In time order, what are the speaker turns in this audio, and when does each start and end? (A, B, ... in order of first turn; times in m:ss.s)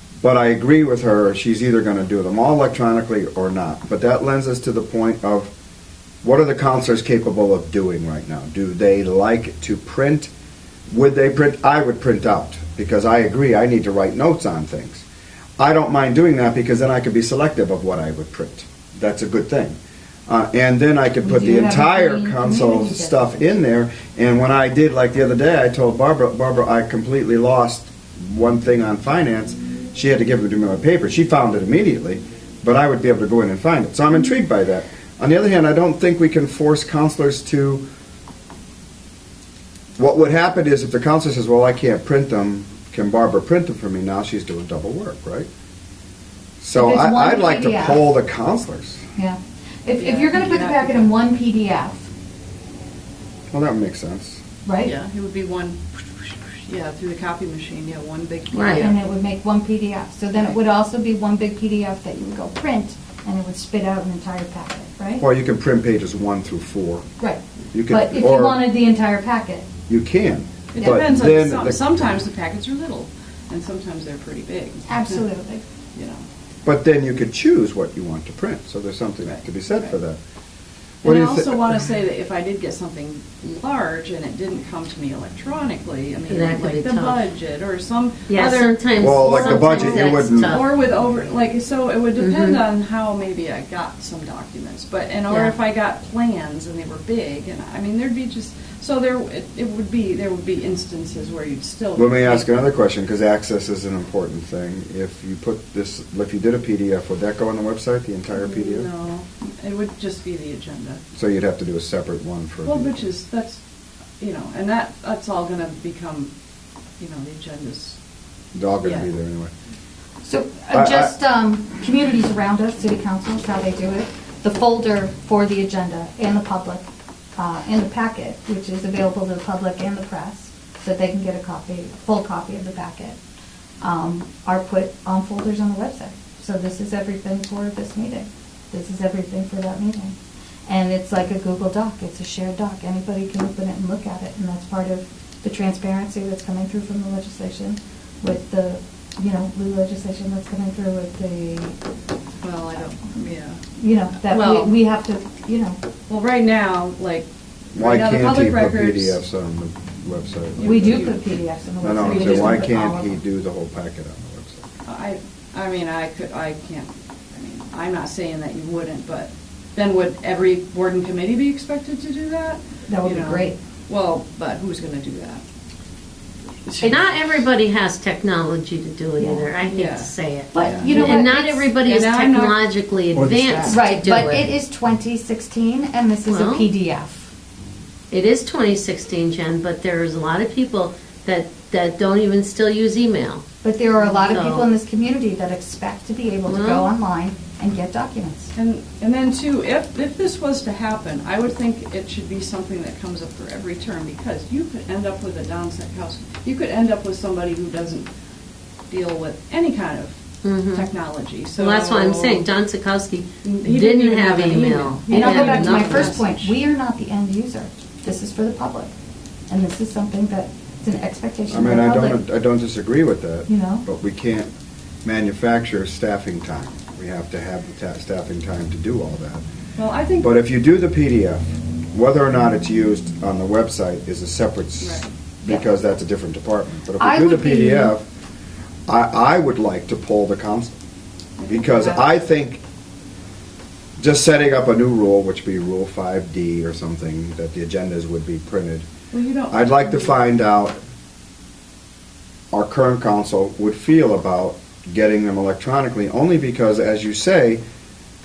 0:00.2-0:05.5 A
0:06.2-0:10.3 A
0:10.9-0:15.0 A
0:15.6-0:37.8 A
0:21.2-0:23.4 B
0:40.0-0:45.5 A
0:46.6-0:49.0 A
0:46.8-0:48.1 B
0:49.2-0:52.1 B
0:50.0-0:51.1 C
0:53.5-0:54.4 A
0:54.6-0:54.9 B
0:54.8-0:59.0 C
0:58.5-0:58.9 D
0:58.7-1:05.2 B
1:05.2-1:07.1 A
1:07.2-1:09.7 B
1:07.7-1:08.6 A
1:09.9-1:12.1 A
1:10.7-1:15.2 C
1:14.9-1:15.6 B
1:16.0-1:16.2 C
1:16.6-1:20.2 A
1:19.2-1:19.9 C
1:21.0-1:42.6 C
1:21.0-1:21.9 A
1:26.3-1:27.2 D
1:28.3-1:30.7 D
1:29.0-1:30.6 A
1:32.2-1:32.6 D
1:42.0-1:48.9 A
1:48.3-1:51.0 C
1:51.1-1:53.1 A
1:52.7-1:53.6 C
1:54.2-1:56.3 C
1:57.0-1:58.0 C
1:58.5-1:59.5 A
1:58.8-1:59.1 C
2:00.2-2:06.8 B
2:00.7-2:01.1 A
2:07.4-2:13.2 B
2:13.8-2:31.8 B
2:32.4-2:33.6 C
2:33.8-2:35.8 B
2:34.2-2:34.7 C
2:36.1-2:39.2 C
2:37.7-2:40.9 A
2:40.6-2:41.2 C
2:40.6-2:43.2 B
2:41.8-2:44.6 A
2:41.9-2:42.7 C
2:44.9-2:55.4 C
2:52.9-2:53.6 B
2:56.7-2:57.4 C
2:56.8-3:04.5 D
2:59.2-2:59.5 B
2:59.7-3:01.1 C
3:00.5-3:01.7 B
3:01.8-3:02.6 C
3:03.2-3:04.2 A
3:03.7-3:07.3 B
3:06.2-3:06.7 D
3:08.1-3:13.4 D
3:13.6-3:18.5 B
3:14.2-3:14.7 D
3:16.5-3:16.9 D
3:18.6-3:28.1 C
3:28.9-3:30.2 C
3:30.4-3:30.9 D
3:30.7-3:32.5 C
3:31.6-3:36.2 D
3:33.4-3:36.6 C
3:35.1-3:38.9 B
3:39.5-3:42.2 B
3:41.5-3:44.5 A
3:43.5-3:43.8 B
3:45.0-3:49.4 A
3:49.8-3:50.3 C
3:50.2-3:51.4 A
3:51.9-3:58.0 A
3:54.8-3:55.1 C
3:57.0-3:58.0 B
3:58.9-4:00.7 A
4:01.4-4:02.1 C
4:01.5-4:02.6 A
4:04.0-4:08.9 A
4:09.1-4:10.2 C
4:09.5-4:10.8 A
4:12.5-4:17.6 A